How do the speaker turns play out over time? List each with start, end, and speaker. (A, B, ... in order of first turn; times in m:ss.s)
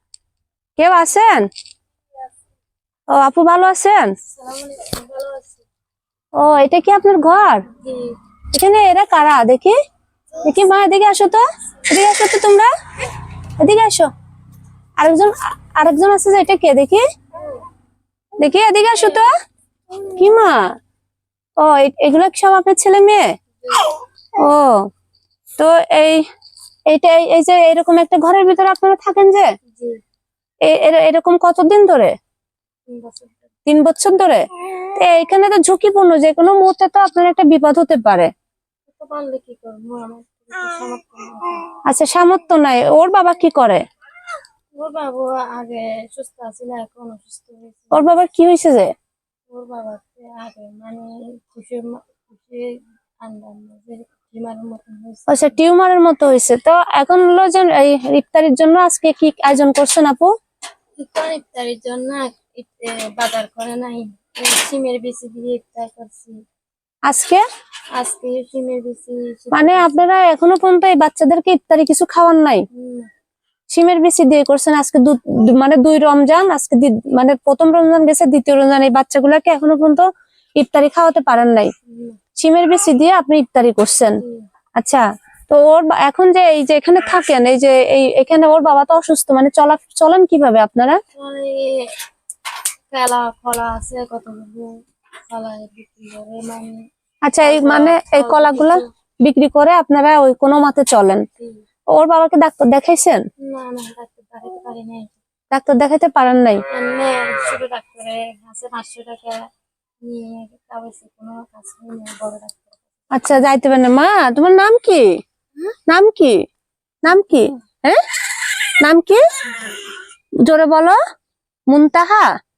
0:00.8-0:01.5 A
0:03.1-0:04.1 A
0:04.3-0:05.6 B
0:06.4-0:07.6 A
0:07.8-0:08.2 B
0:08.5-0:09.8 A
0:10.4-0:12.7 A
0:13.6-0:14.1 A
0:15.0-0:17.0 A
0:18.4-0:19.3 A
0:20.1-0:20.7 A
0:21.6-0:23.3 A
0:23.6-0:23.9 B
0:24.4-0:24.9 A
0:25.6-0:26.2 A
0:26.9-0:29.5 A
0:29.7-0:30.0 B
0:30.6-0:32.1 A
0:32.9-0:33.4 B
0:33.6-0:38.3 A
0:38.9-0:41.7 B
0:41.8-0:43.8 A
0:44.7-0:48.1 B
0:47.9-0:48.9 A
0:49.5-0:55.6 B
0:55.3-1:00.3 A
1:01.0-1:06.4 B
1:07.1-1:07.4 A
1:07.9-1:09.9 B
1:09.5-1:12.6 A
1:12.7-1:13.1 B
1:13.7-1:21.7 A
1:21.9-1:22.2 B
1:22.4-1:24.2 A
1:24.1-1:24.4 B
1:24.8-1:31.0 A
1:31.2-1:31.9 B
1:32.9-1:34.8 B
1:35.3-1:36.8 B
1:37.3-1:41.2 A
1:37.4-1:38.8 B
1:41.9-1:43.2 A
1:43.4-1:45.2 B
1:45.5-1:46.6 A
1:46.7-1:49.4 B
1:50.0-1:52.7 B
1:53.1-1:55.2 A
1:55.9-1:56.4 A
1:57.0-1:58.0 A
1:58.8-1:59.2 A
2:00.4-2:01.0 A
2:01.7-2:02.3 A